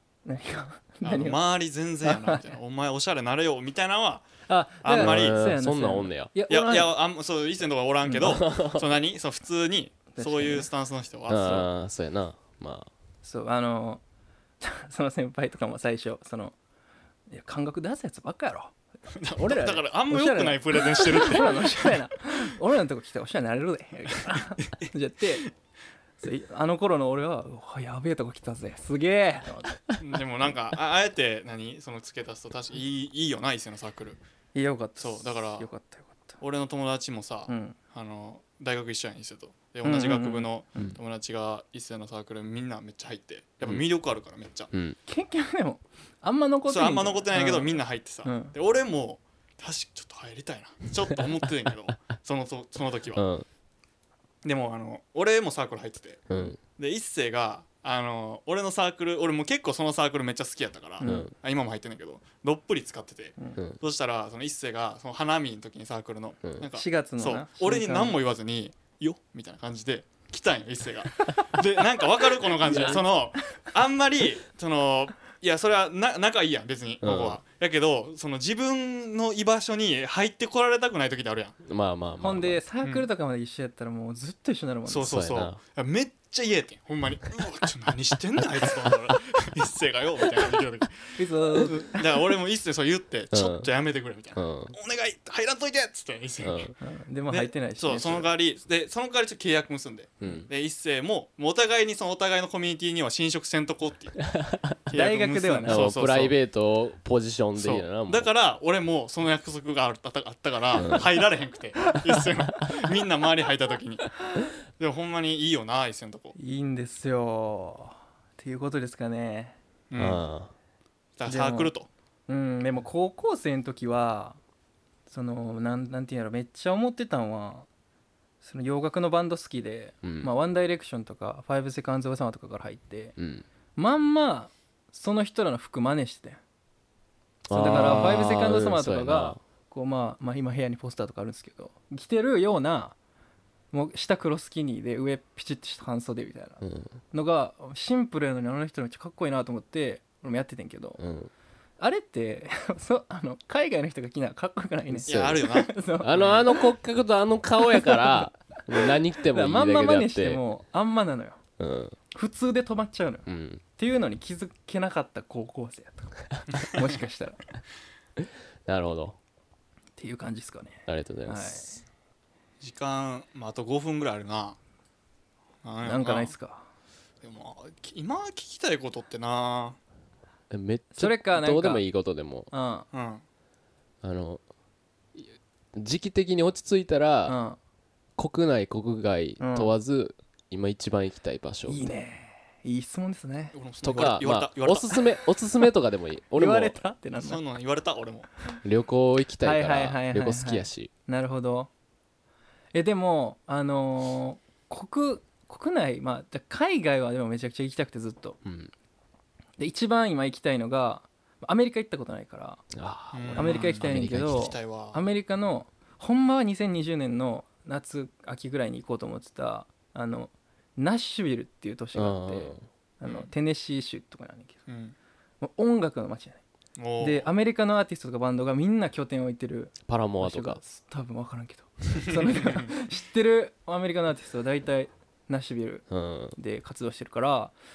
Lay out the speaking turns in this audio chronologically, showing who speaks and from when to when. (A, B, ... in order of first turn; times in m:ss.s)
0:00.3-0:01.4 A
0:01.0-0:04.3 B
0:02.0-0:02.4 A
0:04.5-0:06.9 A
0:04.8-0:05.4 B
0:05.0-0:06.3 C
0:06.5-0:11.7 B
0:08.2-0:08.9 C
0:10.2-0:10.7 A
0:11.3-0:12.9 C
0:13.2-0:14.0 A
0:14.6-0:16.6 A
0:17.3-0:18.7 A
0:19.2-0:22.0 B
0:19.4-0:25.5 A
0:24.6-0:24.9 B
0:26.2-0:29.8 A
0:30.0-0:34.2 B
0:34.5-0:36.4 A
0:35.0-0:35.7 B
0:36.4-0:44.7 B
0:37.5-0:37.8 A
0:39.8-0:40.5 A
0:44.7-0:45.0 C
0:45.1-0:48.5 A
0:46.7-0:53.2 B
0:53.2-0:53.5 C
0:54.4-1:21.6 B
0:56.3-0:56.6 C
1:01.0-1:01.3 A
1:01.0-1:01.3 C
1:06.8-1:08.2 A
1:12.6-1:13.1 A
1:17.0-1:17.4 C
1:21.6-1:22.6 C
1:22.2-1:25.1 A
1:24.9-1:36.7 B
1:25.1-1:25.6 C
1:31.2-1:32.2 A
1:33.3-1:33.7 C
1:34.4-1:34.7 C
1:36.4-1:36.7 C
1:36.8-1:38.3 A
1:37.3-1:44.3 B
1:40.2-1:40.5 C
1:44.4-1:44.7 C
1:44.9-1:46.4 B
1:44.9-1:45.9 A
1:45.7-1:48.3 C
1:47.6-1:54.2 B
1:50.7-1:51.1 C
1:54.8-1:56.4 B
1:56.4-1:59.6 A
1:59.9-2:00.2 B
2:00.0-2:00.5 C
2:01.2-2:01.9 B
2:01.3-2:01.7 A
2:02.3-2:04.4 A
2:05.1-2:07.7 A
2:08.4-2:13.2 A
2:10.0-2:10.3 C
2:13.2-2:13.4 C
2:13.8-2:16.4 A
2:17.5-2:19.4 C
2:17.5-2:23.0 A
2:23.7-2:31.0 A
2:26.6-2:27.0 C
2:31.0-2:31.3 C
2:31.8-2:36.7 A
2:34.9-2:40.4 C
2:35.1-2:36.4 B
2:37.6-2:38.3 A
2:38.8-2:41.4 A
2:41.6-2:42.0 C
2:42.1-2:47.4 A
2:43.3-2:43.6 C
2:48.7-2:49.2 C
2:50.0-2:51.8 A
2:50.9-2:51.8 C
2:52.6-2:54.6 B
2:55.6-2:56.3 B
2:55.8-2:56.7 A
2:57.2-2:59.8 B
3:00.5-3:02.5 C
3:00.9-3:01.8 A
3:02.5-3:02.9 A
3:02.9-3:03.2 B
3:04.0-3:04.4 C
3:05.2-3:07.4 C
3:07.3-3:07.6 A
3:08.2-3:11.8 C
3:09.4-3:09.8 A
3:11.7-3:13.6 A
3:13.6-3:15.0 B
3:13.8-3:16.8 C
3:16.4-3:17.4 A
3:17.2-3:18.3 B
3:18.6-3:20.9 C
3:19.4-3:21.7 A
3:22.7-3:28.4 A
3:28.4-3:28.7 C
3:29.6-3:32.7 A
3:32.7-3:34.6 C
3:33.1-3:35.1 B
3:33.4-3:44.6 A
3:42.0-3:42.6 C
3:43.0-3:43.3 B
3:44.7-3:45.0 B
3:45.4-3:46.4 A
3:46.8-3:47.3 B
3:47.0-3:55.8 A
3:49.9-3:50.6 C
3:52.0-3:52.8 B
3:55.9-3:56.4 C
3:56.4-3:57.5 A